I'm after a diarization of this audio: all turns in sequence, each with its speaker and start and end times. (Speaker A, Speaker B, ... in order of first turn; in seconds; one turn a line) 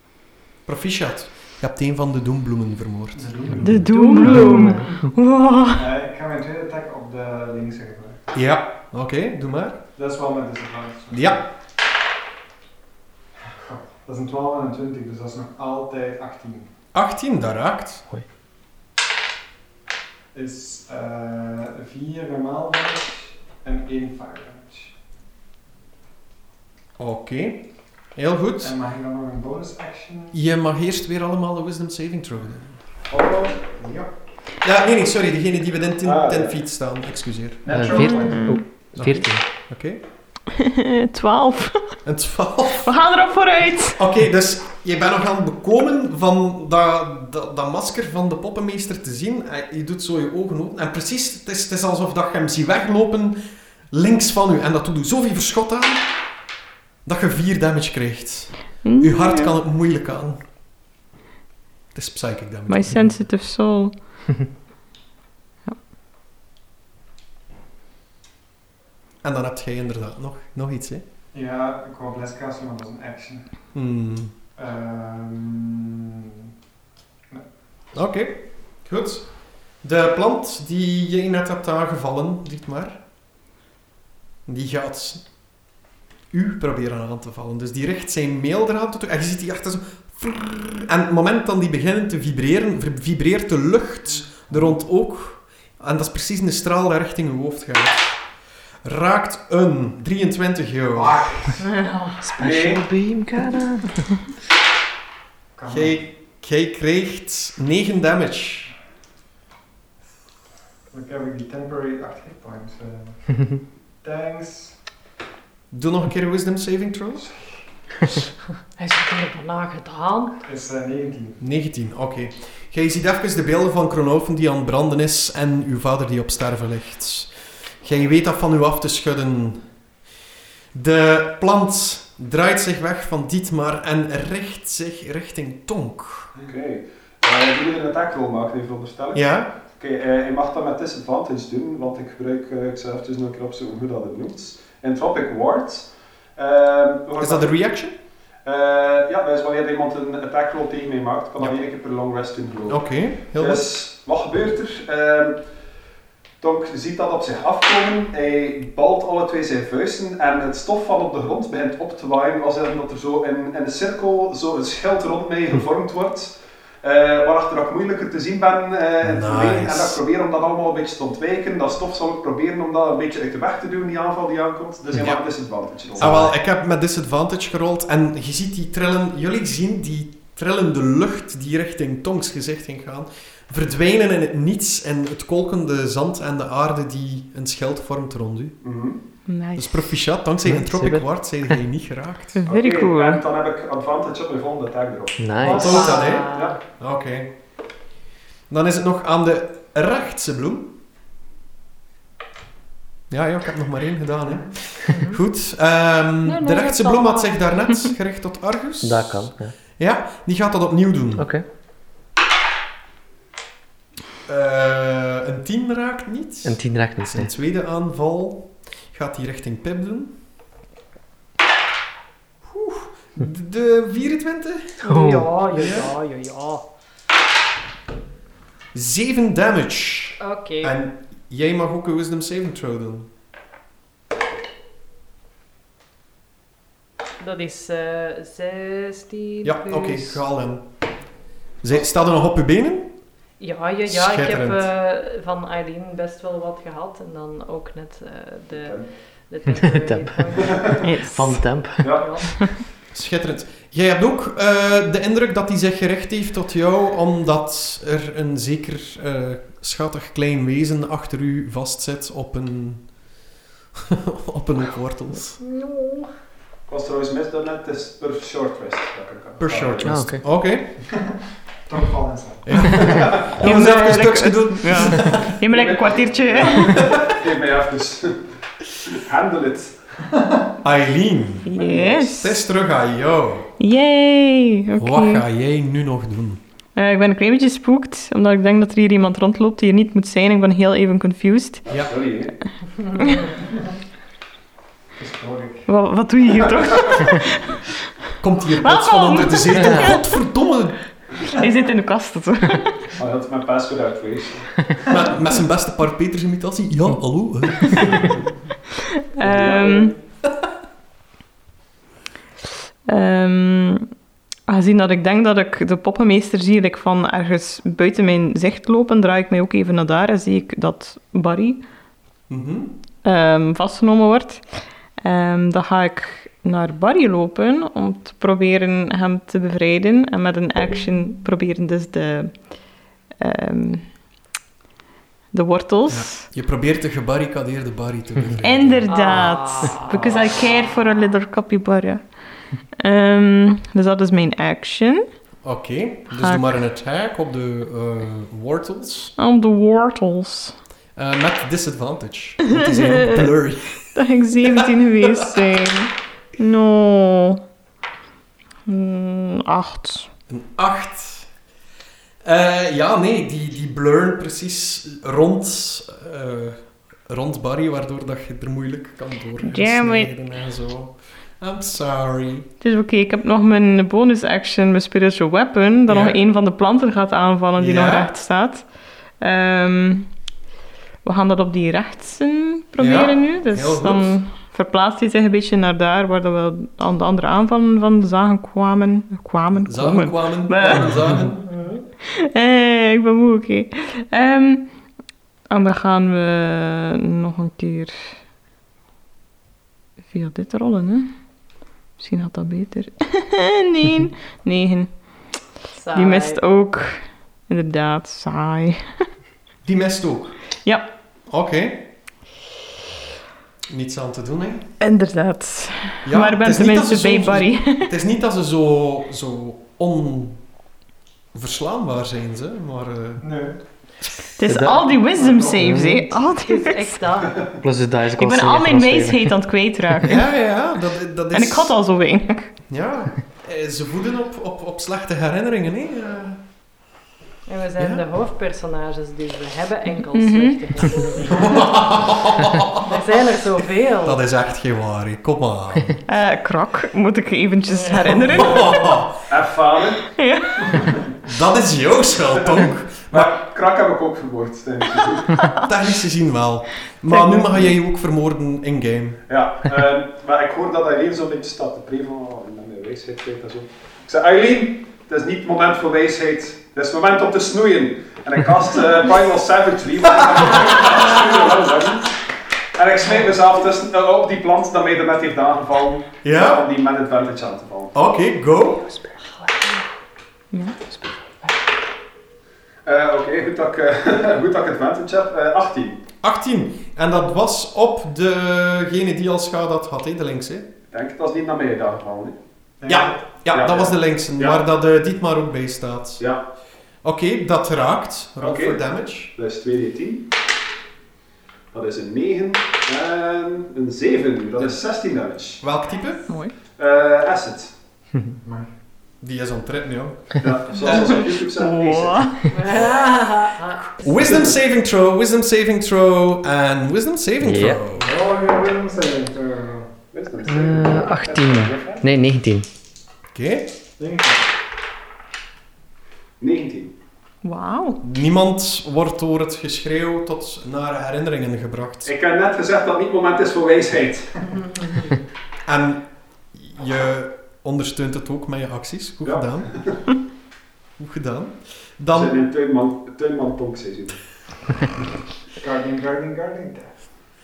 Speaker A: 0.7-3.6
Speaker B: 3.1-4.2
Speaker C: 3.6-5.9
Speaker D: 3.9-5.1
Speaker E: 4.2-4.9
Speaker B: 5.8-8.2
Speaker A: 8.3-9.8
Speaker B: 9.9-11.4
Speaker A: 11.1-11.4
Speaker B: 13.6-16.7
Speaker A: 16.9-18.1
Speaker B: 20.3-24.9
Speaker A: 27.0-28.7
Speaker B: 28.6-30.4
Speaker A: 30.3-32.8
Speaker F: 33.1-33.7
Speaker A: 34.6-37.6
Speaker F: 36.0-36.6
Speaker B: 37.6-38.6
Speaker E: 37.7-39.5
Speaker C: 38.0-38.6
Speaker A: 39.0-40.0
Speaker C: 40.5-42.0
Speaker A: 42.0-42.9
Speaker C: 42.8-44.0
Speaker A: 44.0-53.4
Speaker A: 53.9-56.1
Speaker A: 57.0-60.4
Speaker C: 58.8-59.6
Speaker A: 61.9-63.2
Speaker C: 62.7-64.2
Speaker A: 69.2-71.0
Speaker B: 71.3-73.7
Speaker A: 73.7-74.3
Speaker B: 74.6-76.2
Speaker A: 77.9-83.0
Speaker A: 84.5-85.3
Speaker A: 86.3-98.2
Speaker B: 94.4-94.8
Speaker A: 98.8-101.5
Speaker B: 100.9-101.6
Speaker D: 101.6-102.4
Speaker E: 102.2-104.0
Speaker F: 102.4-102.8
Speaker B: 105.6-106.0
Speaker A: 105.7-108.7
Speaker B: 110.9-114.8
Speaker A: 115.7-117.3
Speaker D: 118.8-120.4
Speaker B: 120.4-121.4
Speaker A: 121.4-129.7
Speaker A: 130.7-136.3
Speaker F: 136.4-147.6
Speaker A: 139.1-139.5
Speaker A: 147.2-147.9
Speaker F: 148.4-155.4
Speaker A: 152.7-153.7
Speaker F: 156.4-176.4
Speaker A: 169.0-170.0
Speaker A: 174.9-175.2
Speaker A: 175.9-188.6
Speaker F: 188.6-189.0
Speaker C: 189.3-190.0
Speaker A: 189.6-192.4
Speaker E: 190.4-191.6
Speaker C: 192.4-193.2
Speaker F: 192.5-196.6
Speaker E: 195.2-195.9
Speaker D: 195.4-196.6
Speaker A: 195.4-197.3
Speaker A: 198.5-200.7
Speaker A: 203.1-211.3
Speaker D: 204.9-205.2
Speaker D: 206.4-207.3
Speaker C: 206.7-207.0
Speaker E: 208.8-209.6
Speaker E: 211.2-211.4
Speaker A: 214.3-220.1
Speaker E: 216.4-217.3
Speaker A: 222.4-224.8
Speaker D: 224.8-226.7
Speaker E: 224.9-225.3
Speaker A: 225.5-225.9
Speaker A: 228.7-233.1
Speaker D: 230.2-230.8
Speaker D: 237.2-240.2
Speaker A: 239.4-240.7
Speaker A: 241.6-242.9
Speaker D: 243.4-250.9
Speaker A: 243.9-244.7
Speaker F: 248.6-248.8
Speaker E: 249.6-251.9
Speaker F: 250.5-250.8
Speaker C: 250.8-251.2
Speaker F: 251.8-252.6
Speaker D: 251.9-252.5
Speaker A: 252.9-262.9
Speaker A: 263.9-265.4
Speaker D: 265.4-266.1
Speaker F: 266.7-270.1
Speaker A: 269.4-270.7
Speaker E: 269.8-270.2
Speaker B: 271.7-272.9
Speaker A: 272.4-275.4
Speaker C: 272.7-276.8
Speaker F: 272.8-273.3
Speaker F: 275.4-278.2
Speaker A: 276.6-277.2
Speaker F: 278.9-279.8
Speaker B: 280.1-280.5
Speaker A: 280.6-283.5
Speaker C: 281.5-282.4
Speaker F: 281.6-281.9
Speaker C: 283.6-285.2
Speaker A: 284.8-286.4
Speaker C: 286.8-291.6
Speaker F: 291.7-292.4
Speaker D: 293.0-293.2
Speaker C: 293.0-293.3
Speaker B: 295.0-295.7
Speaker C: 295.7-297.7
Speaker A: 298.2-300.8
Speaker C: 298.6-300.1
Speaker C: 301.2-302.8
Speaker F: 303.0-304.7
Speaker A: 304.9-308.2
Speaker C: 309.2-309.9
Speaker F: 309.2-310.0
Speaker C: 312.9-313.9
Speaker C: 314.5-321.6
Speaker A: 322.3-322.7
Speaker C: 323.0-324.4
Speaker C: 325.0-332.5
Speaker C: 333.2-334.0
Speaker C: 335.3-336.3
Speaker A: 335.9-339.1
Speaker C: 338.4-342.1
Speaker D: 338.9-340.6
Speaker C: 342.8-345.1
Speaker A: 345.4-349.1
Speaker C: 346.1-346.5
Speaker C: 349.2-350.6
Speaker A: 351.0-354.0
Speaker C: 352.5-353.3
Speaker C: 353.9-357.4
Speaker A: 354.6-355.3
Speaker C: 358.7-360.1
Speaker A: 360.3-361.3
Speaker A: 362.2-372.5
Speaker C: 369.4-370.1
Speaker C: 372.6-378.7
Speaker A: 375.9-376.2
Speaker A: 377.6-378.1
Speaker C: 379.2-380.1
Speaker C: 381.0-391.2
Speaker A: 382.8-384.2
Speaker A: 389.5-391.4
Speaker D: 390.7-391.8
Speaker C: 392.0-394.7
Speaker C: 395.5-398.0
Speaker C: 400.1-401.2
Speaker C: 402.0-405.2
Speaker D: 405.8-406.4
Speaker C: 405.9-408.9
Speaker A: 409.6-410.4
Speaker A: 411.3-411.8
Speaker A: 413.7-414.7
Speaker C: 414.8-417.9
Speaker A: 416.1-420.4
Speaker A: 421.3-423.3
Speaker B: 423.2-423.6
Speaker C: 424.4-427.0
Speaker E: 424.4-424.8
Speaker B: 425.1-425.6
Speaker E: 425.5-426.2
Speaker D: 426.4-427.5
Speaker E: 427.6-429.3
Speaker C: 428.2-430.2
Speaker A: 430.0-431.7
Speaker C: 431.3-432.5
Speaker A: 432.7-436.4
Speaker D: 437.5-441.9
Speaker A: 437.8-438.0
Speaker C: 440.1-440.6
Speaker A: 441.3-443.0
Speaker D: 442.8-444.2
Speaker A: 444.0-446.0
Speaker C: 446.1-448.7
Speaker D: 447.7-449.0
Speaker A: 448.2-449.2
Speaker F: 449.3-450.1
Speaker C: 450.0-450.9
Speaker F: 450.7-451.0
Speaker A: 451.2-453.4
Speaker F: 452.4-455.6
Speaker A: 455.4-459.2
Speaker C: 457.1-457.7
Speaker F: 459.3-472.2
Speaker F: 472.8-477.9
Speaker A: 476.2-476.7
Speaker A: 477.9-478.9
Speaker C: 480.5-480.8
Speaker F: 482.9-486.0
Speaker A: 486.2-490.7
Speaker F: 490.9-492.4
Speaker B: 492.8-493.4
Speaker A: 492.9-496.3
Speaker F: 493.5-494.6
Speaker F: 496.2-496.4
Speaker A: 497.0-499.3
Speaker F: 498.4-498.8
Speaker F: 499.4-500.3
Speaker F: 501.7-505.6
Speaker A: 505.6-506.3
Speaker C: 506.3-506.6
Speaker F: 506.8-507.7
Speaker B: 508.4-508.7
Speaker A: 509.2-511.3
Speaker F: 510.4-512.4
Speaker C: 510.9-512.4
Speaker D: 512.5-514.3
Speaker A: 514.0-518.1
Speaker F: 514.2-514.5
Speaker E: 517.4-517.8
Speaker B: 517.9-519.9
Speaker F: 520.1-522.0
Speaker E: 520.5-522.7
Speaker A: 523.3-523.7
Speaker B: 524.0-524.5
Speaker F: 526.4-526.9
Speaker C: 527.4-528.0
Speaker A: 528.0-532.1
Speaker F: 532.0-534.4
Speaker D: 534.6-535.1
Speaker A: 535.7-539.7
Speaker F: 539.2-540.0
Speaker A: 541.0-542.4
Speaker F: 542.1-544.2
Speaker B: 545.6-547.0